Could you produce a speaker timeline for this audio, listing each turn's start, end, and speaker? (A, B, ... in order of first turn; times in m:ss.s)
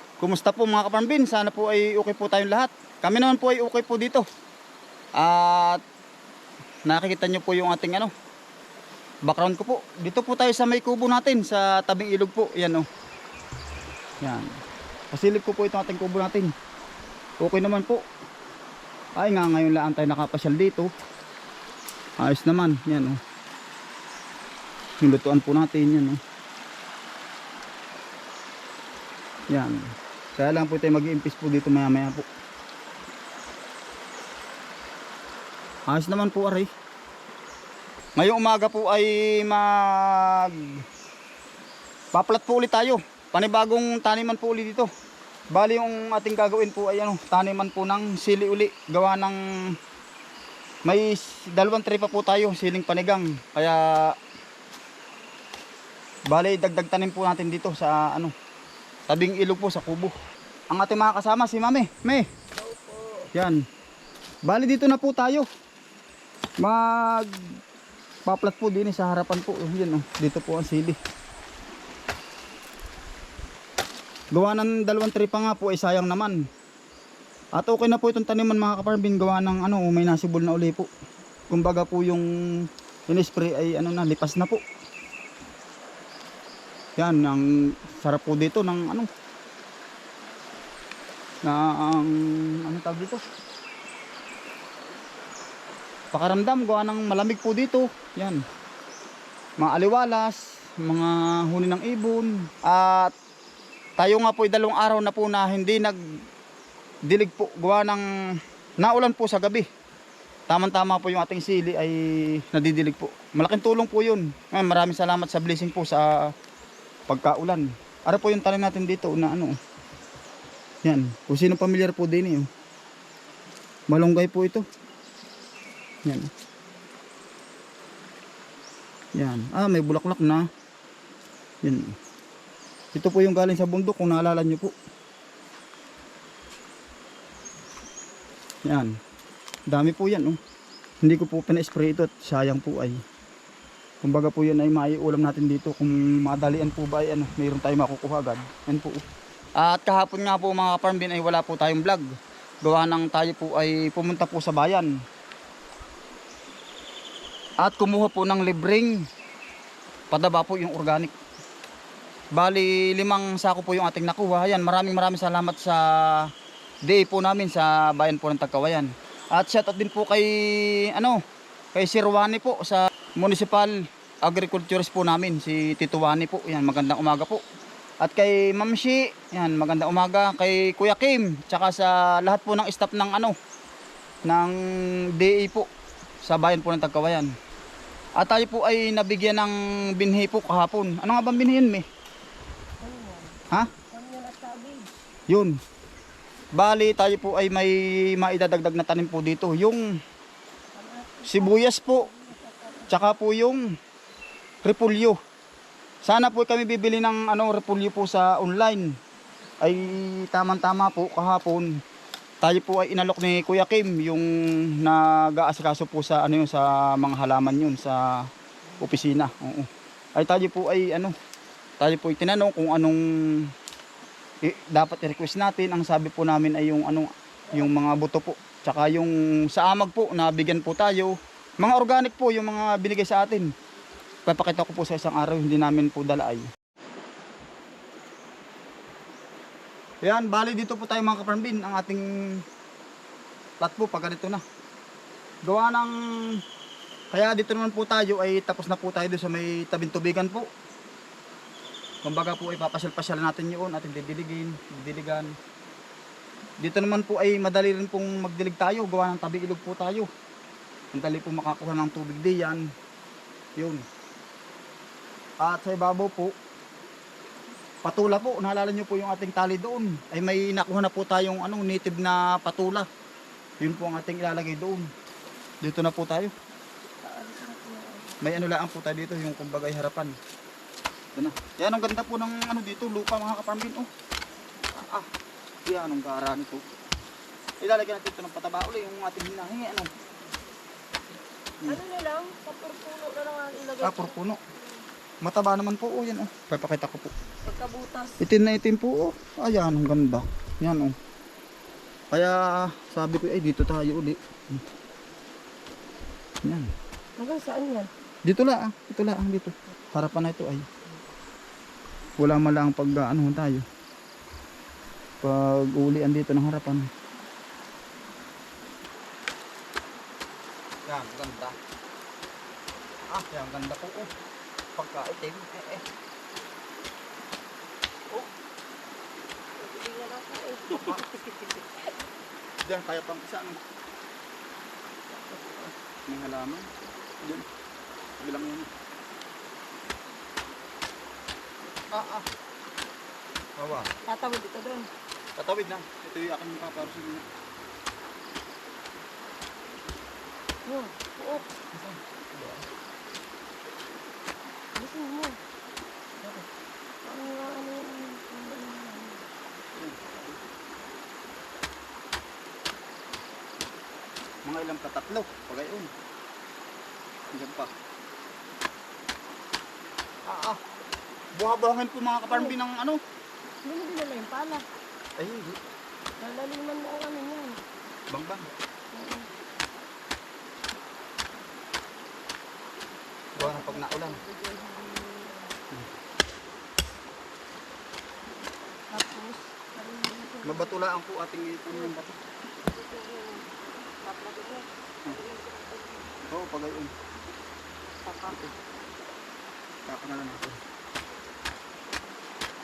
0:00.2-0:04.2 A
0:05.2-0:05.8 A
0:06.8-0:08.1 A
0:09.2-0:12.9 A
0:14.2-0:14.5 A
0:15.1-0:16.5 A
0:17.4-0:18.0 A
0:19.2-0:20.9 A
0:22.2-0:23.2 A
0:25.0-0:26.2 A
0:29.5-0:29.8 A
0:30.4-0:32.2 A
0:35.9-0:36.7 A
0:38.2-0:40.7 A
0:42.1-0:44.9 A
0:45.5-0:49.4 A
0:50.8-0:54.1 A
0:56.3-0:58.3 A
0:59.1-1:00.1 A
1:00.7-1:02.2 A
1:02.6-1:03.3 B
1:03.3-1:03.6 A
1:04.4-1:05.5 A
1:06.6-1:07.4 A
1:08.2-1:11.0 A
1:14.3-1:16.4 A
1:17.6-1:20.9 A
1:21.5-1:24.6 A
1:27.0-1:27.4 A
1:28.0-1:29.1 A
1:31.4-1:33.2 A
1:36.1-1:38.4 A
1:39.6-1:43.1 A
1:44.0-1:46.0 A
1:47.1-1:48.0 A
1:48.8-1:49.6 A
1:50.5-1:56.3 A
1:57.1-1:59.6 A
2:00.8-2:02.5 A
2:03.9-2:04.6 A
2:09.2-2:10.4 A
2:11.6-2:12.0 A
2:12.9-2:14.7 A
2:18.6-2:18.9 A
2:19.7-2:20.4 A
2:21.0-2:23.0 A
2:24.0-2:29.0 A
2:29.6-2:32.0 A
2:32.6-2:34.9 A
2:37.6-2:39.0 A
2:40.1-2:41.1 A
2:42.3-2:46.3 A
2:46.8-2:51.2 A
2:51.7-2:57.4 A
2:58.0-3:03.3 A
3:04.2-3:04.5 A
3:05.2-3:05.7 A
3:06.2-3:07.3 A
3:08.2-3:11.8 A
3:12.8-3:13.4 B
3:13.9-3:14.9 B
3:15.3-3:15.6 A
3:16.6-3:19.8 A
3:20.7-3:23.0 B
3:21.3-3:22.1 A
3:22.9-3:23.6 A
3:24.6-3:25.2 A
3:26.0-3:28.9 A
3:29.6-3:31.7 A
3:32.4-3:34.2 A
3:34.8-3:38.1 A
3:38.7-3:39.1 B
3:38.8-3:41.1 A
3:41.8-3:43.5 A
3:44.4-3:53.5 A
3:54.3-3:56.5 A
4:00.0-4:02.0 A
4:03.6-4:04.4 A
4:05.4-4:06.4 A
4:07.1-4:10.5 A
4:12.0-4:15.3 A
4:16.6-4:20.1 A
4:20.9-4:22.6 A
4:23.6-4:23.8 A
4:25.4-4:26.3 A
4:27.8-4:32.9 A
4:33.6-4:34.9 A
4:35.6-4:36.3 A
4:37.0-4:38.2 B
4:38.2-4:40.2 A
4:41.2-4:43.9 A
4:44.8-4:45.1 A
4:45.6-4:46.6 A
4:47.6-4:49.9 A
4:51.6-4:54.8 B
4:53.8-4:54.4 A
4:55.2-4:57.1 A
4:57.4-4:58.2 B
4:58.2-5:01.0 A
5:02.1-5:04.6 A
5:06.4-5:06.7 A
5:07.2-5:07.9 B
5:08.2-5:10.7 A
5:12.2-5:13.6 A
5:15.2-5:16.9 A
5:20.8-5:21.6 A
5:23.1-5:24.1 A
5:24.8-5:25.8 A
5:29.6-5:31.9 B
5:30.7-5:31.1 A
5:32.6-5:33.6 A
5:35.1-5:35.7 B
5:36.1-5:36.7 A
5:38.2-5:38.7 A
5:41.9-5:42.2 A
5:43.6-5:43.9 A
5:44.0-5:44.9 B
5:45.4-5:47.2 A
5:50.7-5:51.5 B
5:51.7-5:52.6 A
5:54.8-5:55.4 B
5:57.0-5:59.3 B
5:59.7-6:00.4 A
6:04.4-6:05.9 A
6:07.3-6:07.7 A
6:10.2-6:10.6 A
6:11.4-6:13.0 A
6:12.2-6:12.6 B
6:13.6-6:14.6 B
6:15.2-6:15.6 A
6:16.2-6:17.6 B
6:18.1-6:18.5 A
6:18.9-6:19.3 B
6:23.4-6:24.2 A
6:23.4-6:25.6 B
6:28.9-6:30.8 B
6:30.4-6:32.1 A
6:31.7-6:32.1 B
6:32.6-6:33.5 B
6:34.0-6:36.1 B
6:36.2-6:36.9 A
6:38.0-6:38.4 B
6:38.2-6:38.5 A
6:39.8-6:40.6 A